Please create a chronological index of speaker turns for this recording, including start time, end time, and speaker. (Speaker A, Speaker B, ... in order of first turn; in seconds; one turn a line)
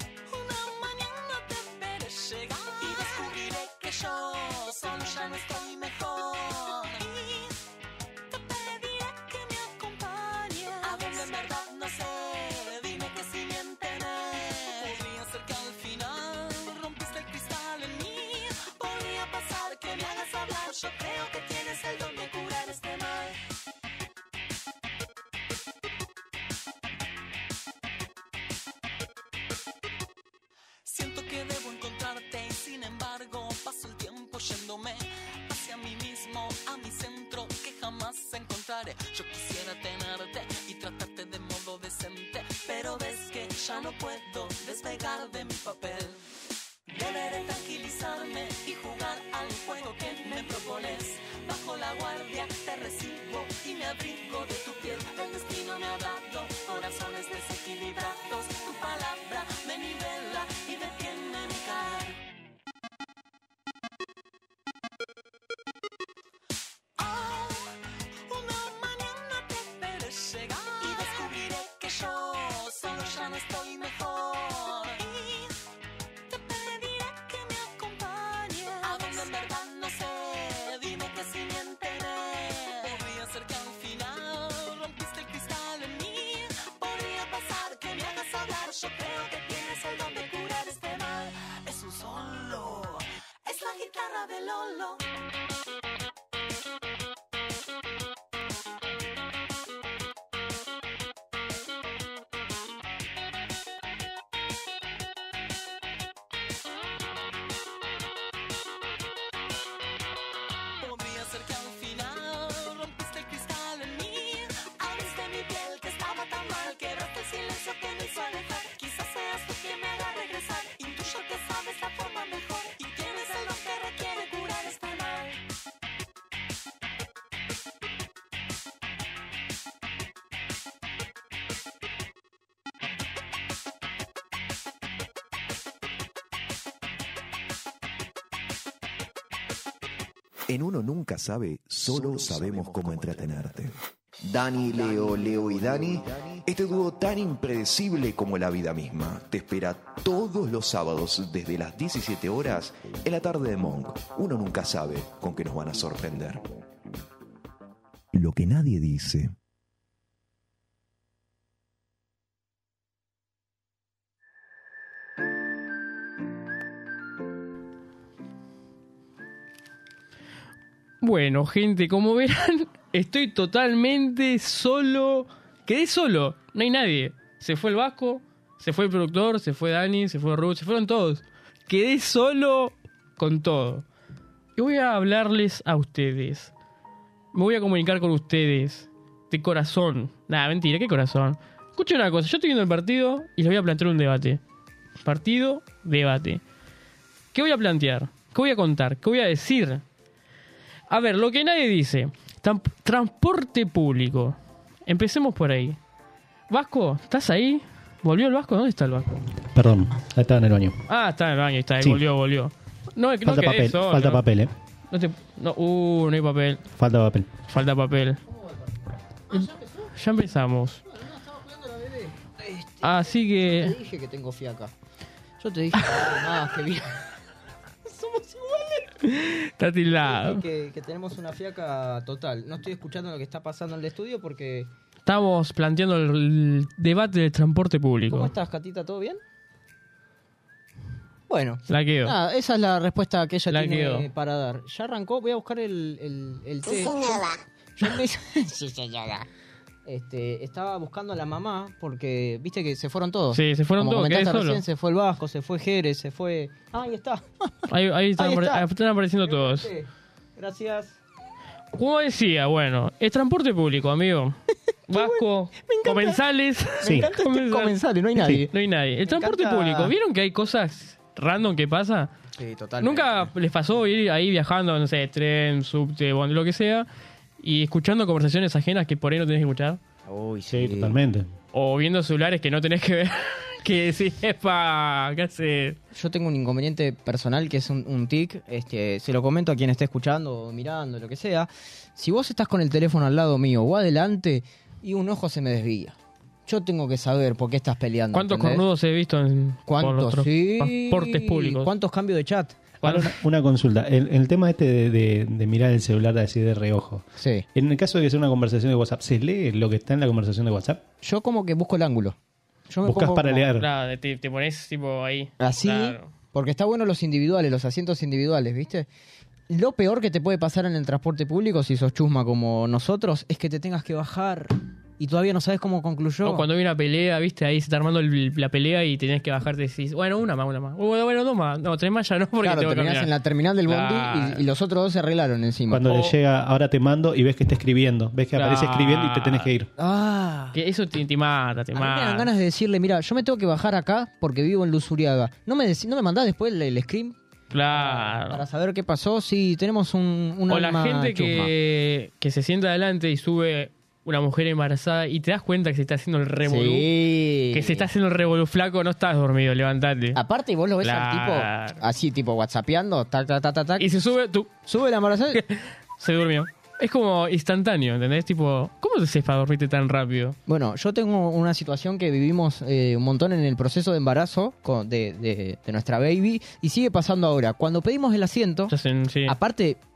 Speaker A: 0.3-7.6
Speaker A: 8.3-23.4
Speaker A: 30.8-46.2
Speaker A: 46.9-62.2
Speaker A: 67.0-75.6
Speaker A: 76.3-95.0
Speaker A: 110.8-125.4
Speaker B: 140.5-156.4
Speaker B: 158.1-159.3
Speaker C: 171.0-183.8
Speaker C: 184.6-186.5
Speaker C: 187.3-194.4
Speaker C: 195.0-196.4
Speaker C: 197.3-199.8
Speaker C: 200.9-205.8
Speaker C: 206.5-209.1
Speaker D: 209.5-210.8
Speaker C: 210.9-214.2
Speaker D: 213.2-214.5
Speaker C: 214.9-216.6
Speaker D: 216.8-217.3
Speaker C: 217.5-218.2
Speaker E: 219.3-219.9
Speaker C: 219.3-220.8
Speaker E: 220.9-224.7
Speaker C: 222.8-223.8
Speaker E: 225.4-227.0
Speaker E: 227.8-228.9
Speaker C: 229.0-230.4
Speaker E: 230.0-234.7
Speaker C: 235.1-238.3
Speaker E: 238.1-239.2
Speaker E: 241.3-249.3
Speaker C: 241.7-242.2
Speaker C: 243.5-244.1
Speaker E: 249.8-257.6
Speaker C: 253.3-254.6
Speaker C: 257.7-259.7
Speaker E: 258.2-258.6
Speaker E: 259.2-261.0
Speaker C: 261.7-264.4
Speaker C: 264.9-272.1
Speaker E: 264.9-266.2
Speaker E: 266.8-268.5
Speaker D: 266.8-267.1
Speaker D: 268.2-268.4
Speaker E: 269.0-269.9
Speaker E: 272.4-273.3
Speaker C: 272.8-276.9
Speaker C: 277.4-279.8
Speaker E: 280.1-280.9
Speaker D: 280.5-281.3
Speaker C: 281.5-285.8
Speaker E: 285.9-295.9
Speaker E: 296.5-298.6
Speaker C: 298.1-301.7
Speaker E: 299.7-302.6
Speaker C: 302.8-303.2
Speaker D: 302.8-310.8
Speaker E: 307.2-307.4
Speaker E: 311.0-312.1
Speaker E: 312.7-313.5
Speaker D: 312.8-313.7
Speaker C: 313.6-316.1
Speaker E: 315.4-318.9
Speaker E: 319.5-326.4
Speaker C: 326.2-333.1
Speaker E: 332.4-335.9
Speaker C: 333.6-334.4
Speaker D: 335.7-339.7
Speaker C: 335.9-336.1
Speaker C: 338.3-339.5
Speaker E: 339.8-340.6
Speaker C: 340.5-342.3
Speaker E: 341.7-347.1
Speaker C: 347.5-348.4
Speaker E: 347.7-351.5
Speaker C: 350.5-356.9
Speaker E: 356.4-357.9
Speaker C: 357.5-360.2
Speaker E: 360.1-363.9
Speaker C: 360.8-361.8
Speaker C: 363.8-364.5
Speaker E: 364.7-365.4
Speaker C: 365.3-370.4
Speaker E: 370.5-378.7
Speaker C: 378.7-379.3
Speaker E: 379.3-379.8